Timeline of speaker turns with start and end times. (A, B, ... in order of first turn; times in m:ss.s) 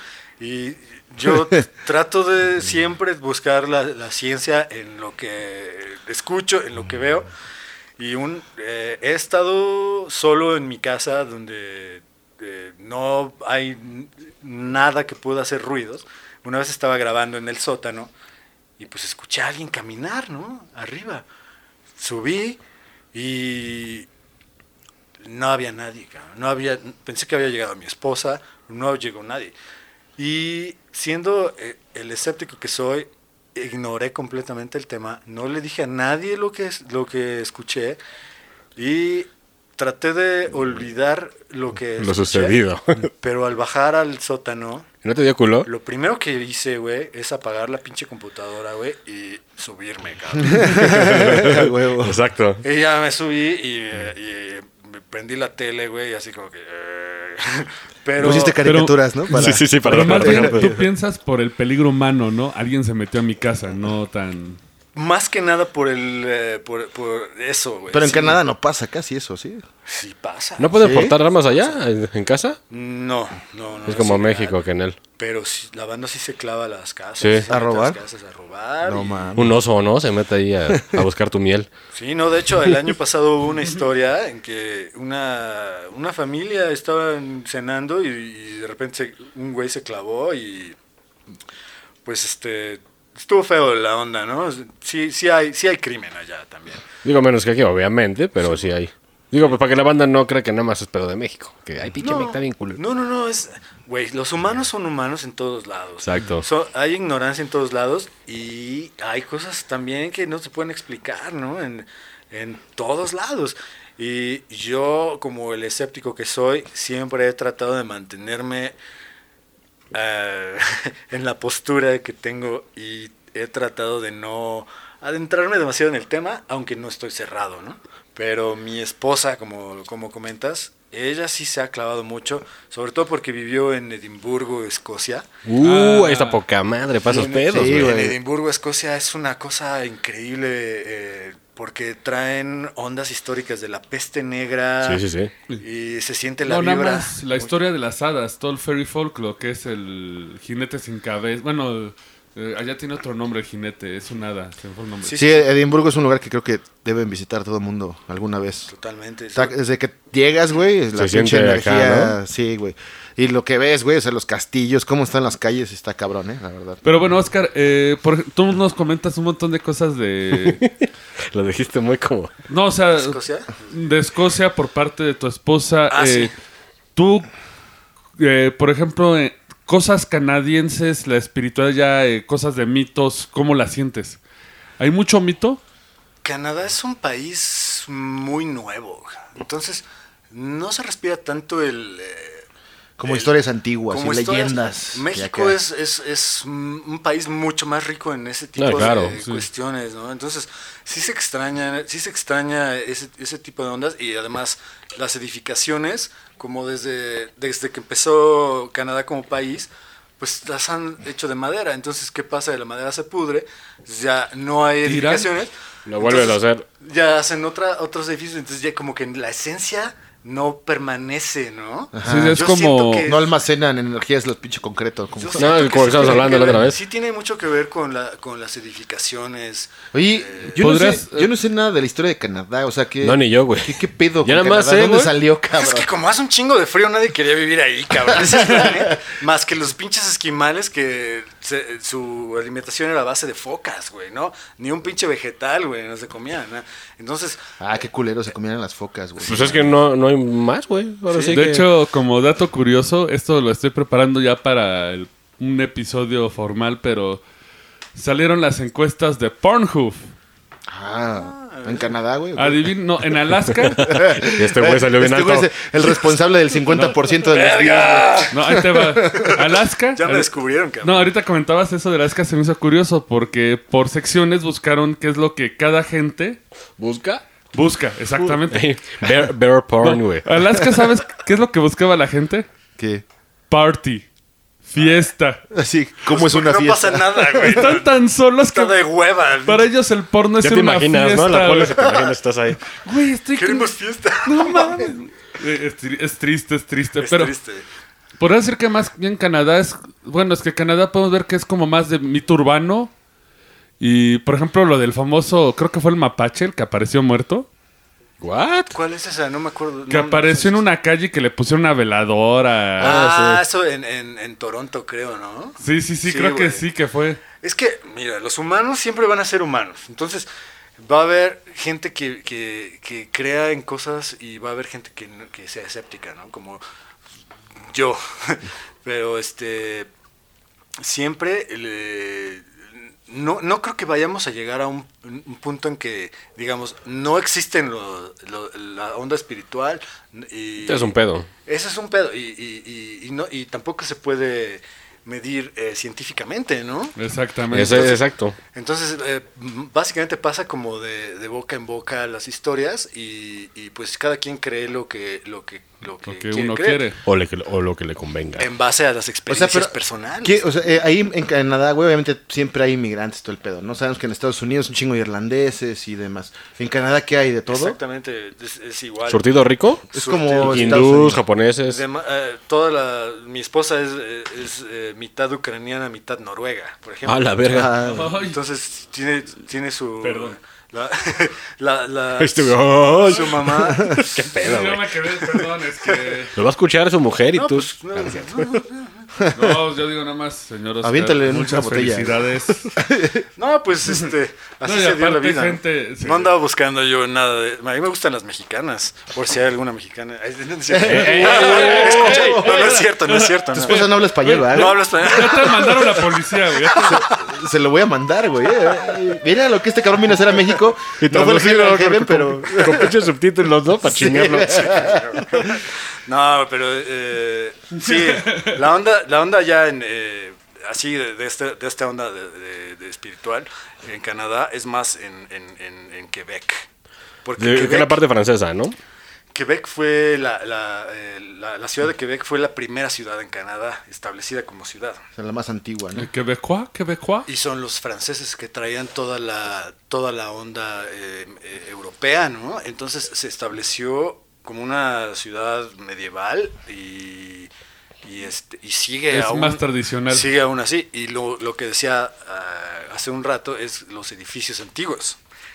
0:00.4-0:07.3 A
0:08.0-0:18.1 A
0:18.8-0:21.2 A
0:22.0-0:22.6 A
0:23.1-0:24.1 A
0:25.2-0:29.5 A
0:30.2-0:38.0 A
0:38.8-0:42.7 A
0:42.0-0:43.1 B
0:43.2-0:44.9 A
0:45.0-0:45.7 B
0:45.6-0:51.2 A
0:50.4-0:52.2 C
0:50.8-0:52.6 B
0:52.6-0:58.6 A
0:58.2-1:00.7 C
0:58.2-1:04.6 D
0:59.3-1:00.9 B
1:05.0-1:08.4 A
1:07.9-1:09.6 C
1:09.9-1:11.8 A
1:10.6-1:12.6 B
1:10.8-1:11.1 C
1:12.7-1:14.6 A
1:13.9-1:15.0 B
1:15.2-1:19.4 A
1:17.5-1:18.0 C
1:18.8-1:19.5 C
1:19.4-1:21.7 B
1:20.7-1:21.0 C
1:21.9-1:30.8 A
1:32.0-1:36.8 A
1:37.0-1:42.8 B
1:38.4-1:38.7 A
1:42.0-1:58.8 A
1:46.0-1:46.4 B
1:59.9-2:15.3 A
2:15.5-2:18.0 B
2:15.6-2:16.4 D
2:17.0-2:25.0 A
2:17.5-2:18.2 C
2:24.8-2:25.3 B
2:25.6-2:27.5 A
2:26.4-2:35.2 D
2:35.0-2:35.3 A
2:35.2-2:38.7 C
2:38.7-2:39.5 A
2:39.4-2:46.8 C
2:41.0-2:42.2 B
2:46.8-2:50.6 D
2:50.3-2:52.3 B
2:52.5-2:56.3 D
2:53.0-2:53.7 A
2:55.9-2:56.3 A
2:57.0-2:57.3 D
2:58.2-3:04.2 D
3:04.8-3:05.6 D
3:06.2-3:12.4 A
3:13.0-3:15.6 C
3:13.0-3:13.3 A
3:13.9-3:43.3 A
3:18.6-3:19.2 B
3:19.2-3:19.5 D
3:34.8-3:35.3 D
3:35.9-3:36.6 B
3:42.0-3:42.4 C
3:42.0-3:43.1 D
3:43.0-3:46.3 C
3:45.1-3:50.6 A
3:45.4-3:46.8 B
3:49.9-3:55.9 C
3:50.6-3:51.3 D
3:53.0-3:55.1 B
3:55.5-4:07.4 A
3:58.1-3:58.9 C
4:07.6-4:09.7 C
4:09.2-4:09.6 A
4:09.2-4:11.7 B
4:11.1-4:11.5 A
4:11.3-4:17.2 D
4:18.0-4:20.1 D
4:20.7-4:22.7 C
4:21.2-4:21.9 A
4:22.4-4:24.0 D
4:23.6-4:26.0 B
4:23.9-4:29.4 C
4:27.2-4:28.6 A
4:28.3-4:30.3 D
4:30.0-4:31.1 A
4:30.8-4:36.4 D
4:36.8-4:37.2 B
4:37.5-4:38.7 D
4:38.2-4:40.2 B
4:39.8-4:42.5 D
4:42.8-4:43.0 C
4:43.5-4:44.1 D
4:44.6-4:45.4 D
4:45.5-4:47.6 C
4:46.1-4:49.7 A
4:47.4-4:48.8 D
4:49.5-4:51.9 D
4:50.4-4:52.7 B
4:52.7-4:53.7 D
4:53.4-4:54.9 A
4:54.2-4:57.3 D
4:57.0-4:57.6 A
4:58.2-5:02.9 D
5:03.8-5:07.5 D
5:08.2-5:08.8 B
5:08.7-5:10.6 A
5:09.9-5:13.0 D
5:12.8-5:13.4 B
5:12.8-5:16.6 A
5:15.6-5:17.2 D
5:17.4-5:20.2 A
5:20.8-5:26.6 A
5:27.7-5:29.9 A
5:30.8-5:32.5 A
5:33.1-5:40.9 A
5:40.6-5:41.3 B
5:41.5-5:47.0 A
5:47.0-5:48.0 D
5:47.5-5:48.4 B
5:47.6-5:56.8 A
5:56.1-5:57.0 D
5:57.0-5:58.5 B
5:58.4-6:00.4 A
5:59.3-6:07.8 C
6:07.5-6:11.0 A
6:09.1-6:11.8 B
6:09.9-6:11.2 C
6:11.7-6:24.1 A
6:17.1-6:17.9 B
6:17.5-6:18.1 C
6:17.8-6:18.4 D
6:20.0-6:20.4 D
6:22.2-6:25.0 B
6:24.3-6:26.4 D
6:26.4-6:28.6 B
6:27.3-6:29.1 A
6:29.2-6:29.6 C
6:29.3-6:32.7 D
6:30.8-6:33.2 C
6:33.4-6:47.2 A
6:34.6-6:36.3 D
6:40.7-6:42.7 C
6:40.9-6:47.0 D
6:43.5-6:44.8 C
6:46.8-6:53.0 C
6:51.0-6:55.0 B
6:53.8-6:55.5 C
6:54.4-7:06.6 A
6:57.8-6:58.6 D
7:07.2-7:08.0 A
7:07.4-7:08.8 B
7:09.3-7:15.0 A
7:15.2-7:16.1 C
7:16.0-7:17.3 D
7:17.3-7:27.5 A
7:28.0-7:35.2 A
7:29.1-7:30.3 D